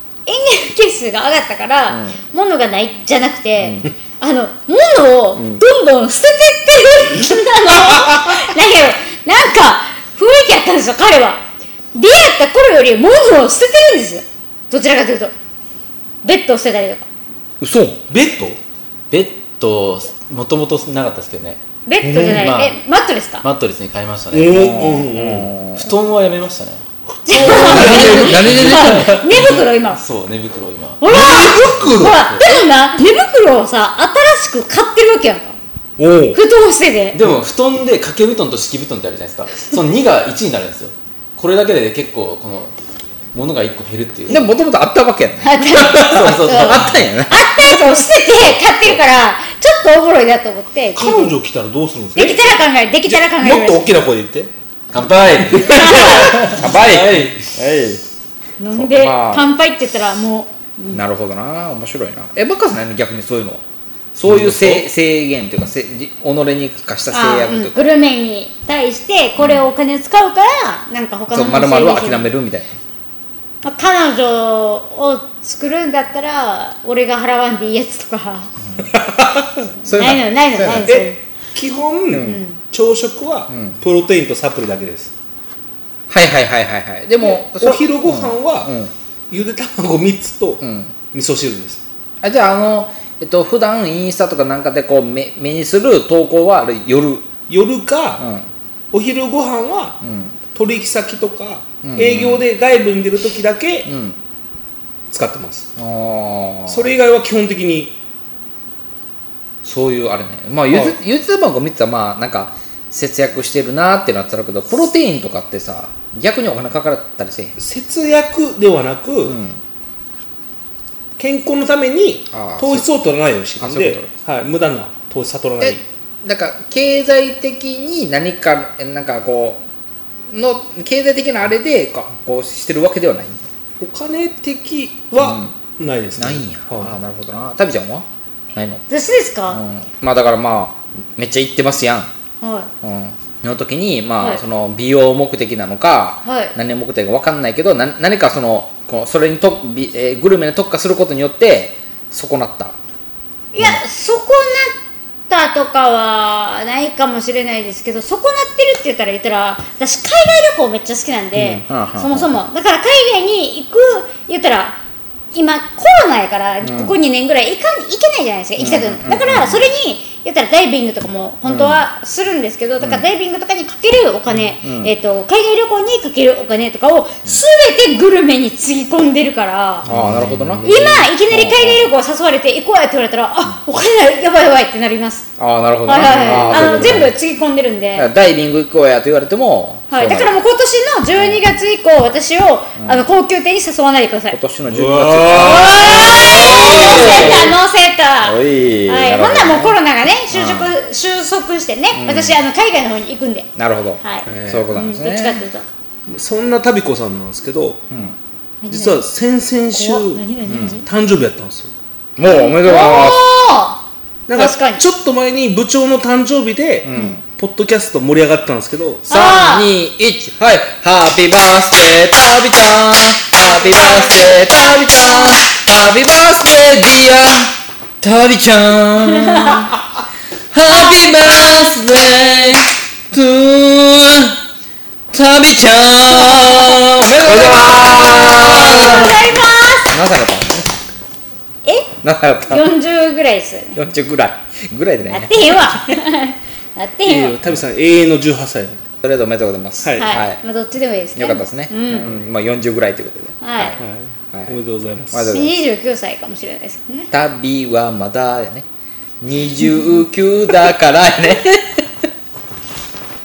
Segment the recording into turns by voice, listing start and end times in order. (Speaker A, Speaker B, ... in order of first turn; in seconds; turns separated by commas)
Speaker A: 0.3-11.4, Speaker B: 1.9-2.2, Speaker B: 5.4-5.6, Speaker A: 11.9-15.3, Speaker A: 16.2-17.1, Speaker B: 17.6-18.0, Speaker C: 18.1-18.6, Speaker D: 19.1-21.6, Speaker A: 21.9-23.4, Speaker C: 22.0-22.4, Speaker D: 22.1-22.8, Speaker D: 23.4-24.6, Speaker C: 24.3-25.5, Speaker B: 24.5-25.9, Speaker D: 25.8-26.8, Speaker A: 27.3-30.0, Speaker C: 27.3-28.3, Speaker B: 27.4-29.5, Speaker D: 27.5-31.1, Speaker A: 31.0-35.6, Speaker C: 31.1-32.2, Speaker D: 32.1-32.7, Speaker C: 36.0-36.4, Speaker A: 36.3-37.2, Speaker D: 37.1-42.7, Speaker D: 43.3-44.5, Speaker B: 44.3-47.9, Speaker A: 45.4-51.4, Speaker D: 45.9-47.0, Speaker C: 51.0-54.5, Speaker A: 52.2-53.9, Speaker D: 54.9-57.5, Speaker A: 55.6-56.5, Speaker B: 55.8-58.0, Speaker A: 58.6-61.0, Speaker B: 58.7-59.5, Speaker B: 60.9-63.6, Speaker B: 64.2-67.8, Speaker D: 64.3-64.9, Speaker A: 67.1-72.3, Speaker B: 69.4-69.7, Speaker B: 71.3-72.7, Speaker A: 73.6-78.5, Speaker B: 79.8-81.0, Speaker A: 79.9-81.2, Speaker C: 80.8-85.1, Speaker B: 82.1-82.4, Speaker A: 82.1-82.6, Speaker B: 83.5-83.8, Speaker B: 86.1-88.9, Speaker C: 87.2-88.8, Speaker C: 89.3-91.8, Speaker B: 90.6-91.0, Speaker B: 92.2-97.3, Speaker C: 97.5-98.2, Speaker B: 98.2-98.5, Speaker C: 98.9-100.0, Speaker B: 100.0-100.4, Speaker C: 100.5-103.9, Speaker B: 101.8-102.4, Speaker B: 103.9-104.2, Speaker C: 105.1-105.7, Speaker B: 105.8-106.9, Speaker C: 106.7-108.0, Speaker B: 109.6-117.6, Speaker C: 117.6-119.4, Speaker B: 119.2-119.6, Speaker C: 121.2-125.8, Speaker B: 122.3-122.9, Speaker B: 123.6-124.1, Speaker B: 125.6-129.6, Speaker B: 130.3-133.5, Speaker C: 133.8-137.0, Speaker B: 135.2-135.5, Speaker B: 136.2-138.8, Speaker A: 138.9-139.6, Speaker B: 139.5-142.1, Speaker A: 142.4-142.7, Speaker B: 142.8-152.8, Speaker A: 146.2-146.5, Speaker A: 153.5-154.8, Speaker A: 155.3-164.8, Speaker B: 161.3-162.4, Speaker A: 165.3-179.9, Speaker B: 166.6-166.9, Speaker B: 168.6-169.7, Speaker B: 171.4-171.8, Speaker B: 174.3-174.9, Speaker B: 179.9-181.9, Speaker D: 179.9-180.6, Speaker C: 180.6-181.0, Speaker A: 180.6-185.3, Speaker B: 185.4-187.1, Speaker A: 185.8-188.1, Speaker C: 186.1-187.0, Speaker B: 188.0-190.3, Speaker A: 189.9-194.4, Speaker B: 191.1-191.4, Speaker B: 192.8-193.1, Speaker B: 194.3-197.6, Speaker C: 194.7-197.5, Speaker A: 195.3-203.5, Speaker B: 198.2-199.8, Speaker B: 200.3-200.8, Speaker B: 201.9-202.4, Speaker B: 203.6-205.4, Speaker A: 204.0-205.7, Speaker C: 204.3-204.7, Speaker C: 206.1-207.8, Speaker B: 207.9-208.2, Speaker A: 208.6-209.0, Speaker C: 208.7-210.2, Speaker A: 209.7-210.9, Speaker B: 210.5-210.8, Speaker C: 210.8-211.7, Speaker B: 212.2-213.3, Speaker A: 212.2-213.8, Speaker C: 214.3-219.1, Speaker A: 214.3-214.8, Speaker B: 216.8-217.2, Speaker B: 219.1-229.8, Speaker A: 219.1-219.7, Speaker A: 223.5-225.4, Speaker A: 229.3-229.7, Speaker B: 230.5-234.4, Speaker A: 230.7-232.0, Speaker B: 235.1-239.2, Speaker A: 237.8-239.9, Speaker B: 239.9-240.7, Speaker A: 241.7-241.9, Speaker B: 242.0-242.7, Speaker A: 242.5-243.8, Speaker B: 243.8-245.8, Speaker A: 245.1-247.4, Speaker C: 247.1-248.9, Speaker B: 249.0-250.4, Speaker A: 250.0-252.2, Speaker B: 251.2-253.8, Speaker A: 253.4-253.8, Speaker C: 253.8-255.3, Speaker B: 254.3-254.6, Speaker B: 255.1-255.6, Speaker A: 255.3-257.1, Speaker B: 257.1-258.6, Speaker B: 259.2-261.9